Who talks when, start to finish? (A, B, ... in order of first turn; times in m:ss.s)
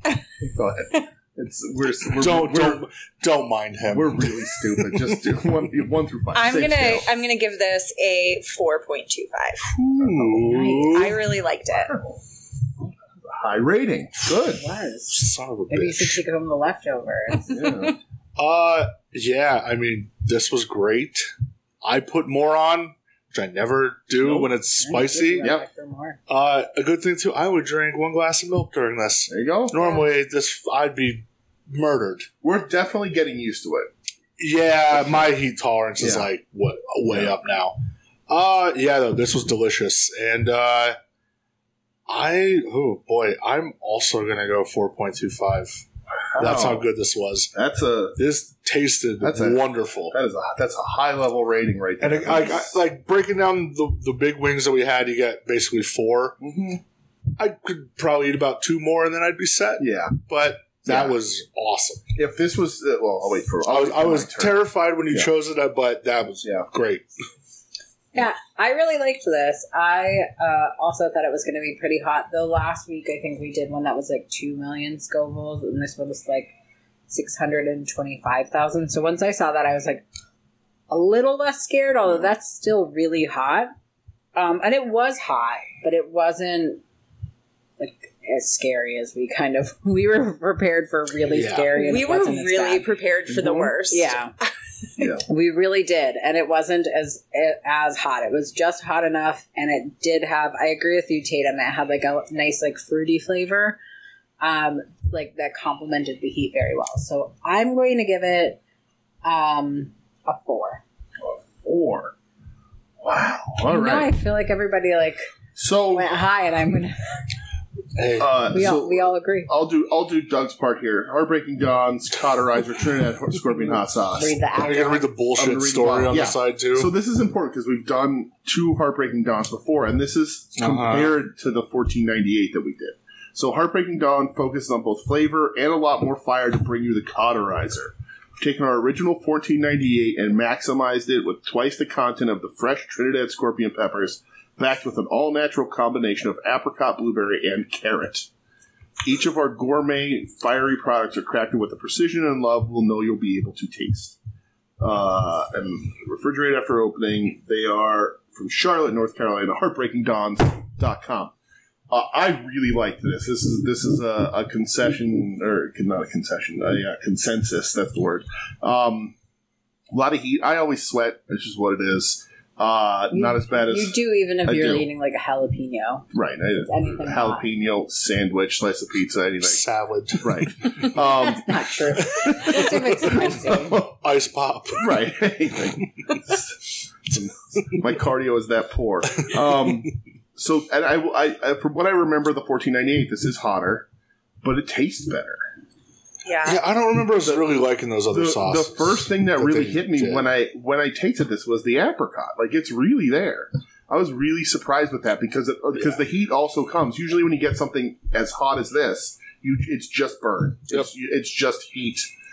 0:00.4-0:02.8 A
0:02.1-0:05.2 B
0:03.9-0:07.1 A
0:06.3-0:09.7 C
0:09.7-0:10.7 A
0:10.0-0:11.2 B
0:10.5-0:11.0 D
0:10.9-0:12.0 C
0:11.8-0:12.2 A
0:12.8-0:14.6 A
0:14.5-0:15.2 D
0:15.1-0:16.2 B
0:15.7-0:17.8 D
0:17.5-0:18.0 A
0:18.4-0:21.3 B
0:21.8-0:25.5 B
0:24.2-0:24.5 A
0:24.8-0:26.2 D
0:26.3-0:32.3 B
0:29.3-0:30.0 A
0:32.4-0:33.9 A
0:34.4-0:37.8 B
0:34.9-0:35.3 A
0:36.0-0:36.3 A
0:37.1-0:37.4 A
0:38.3-0:41.0 B
0:42.1-0:45.8 B
0:46.3-0:46.9 A
0:46.4-0:47.5 B
0:47.5-0:48.2 A
0:48.2-0:50.2 B
0:49.2-0:52.8 A
0:52.0-0:56.4 B
0:56.4-0:56.8 A
0:57.4-1:02.0 B
0:59.8-1:00.2 A
1:00.8-1:01.2 A
1:02.1-1:05.3 A
1:03.7-1:07.1 B
1:06.4-1:06.7 A
1:08.1-1:16.5 D
1:17.1-1:20.0 D
1:20.9-1:23.7 D
1:24.3-1:26.8 D
1:27.8-1:32.8 D
1:31.3-1:31.7 B
1:31.7-1:34.1 C
1:33.9-1:34.3 D
1:35.0-1:35.2 A
1:35.2-1:43.8 D
1:44.4-1:48.6 D
1:49.2-1:50.8 D
1:51.2-1:52.1 A
1:53.0-1:54.1 A
1:53.6-1:55.2 D
1:55.6-1:56.1 A
1:55.9-1:57.0 D
1:57.9-1:58.3 B
1:58.2-2:04.4 A
1:58.5-1:59.5 D
2:04.1-2:05.1 D
2:04.5-2:06.9 B
2:05.4-2:28.3 A
2:10.6-2:11.1 B
2:29.0-2:34.2 A
2:34.8-2:41.3 A
2:41.9-2:49.1 A
2:49.9-2:54.9 A
2:53.1-2:56.1 D
2:56.1-2:59.6 A
2:56.6-2:57.4 D
2:59.4-3:00.9 B
3:00.2-3:03.9 A
3:01.0-3:03.8 D
3:02.0-3:03.1 B
3:03.8-3:05.0 B
3:04.8-3:13.9 A
3:09.2-3:09.7 B
3:14.4-3:15.4 A
3:16.2-3:16.6 C
3:16.4-3:20.2 B
3:17.2-3:17.6 A
3:18.1-3:32.1 A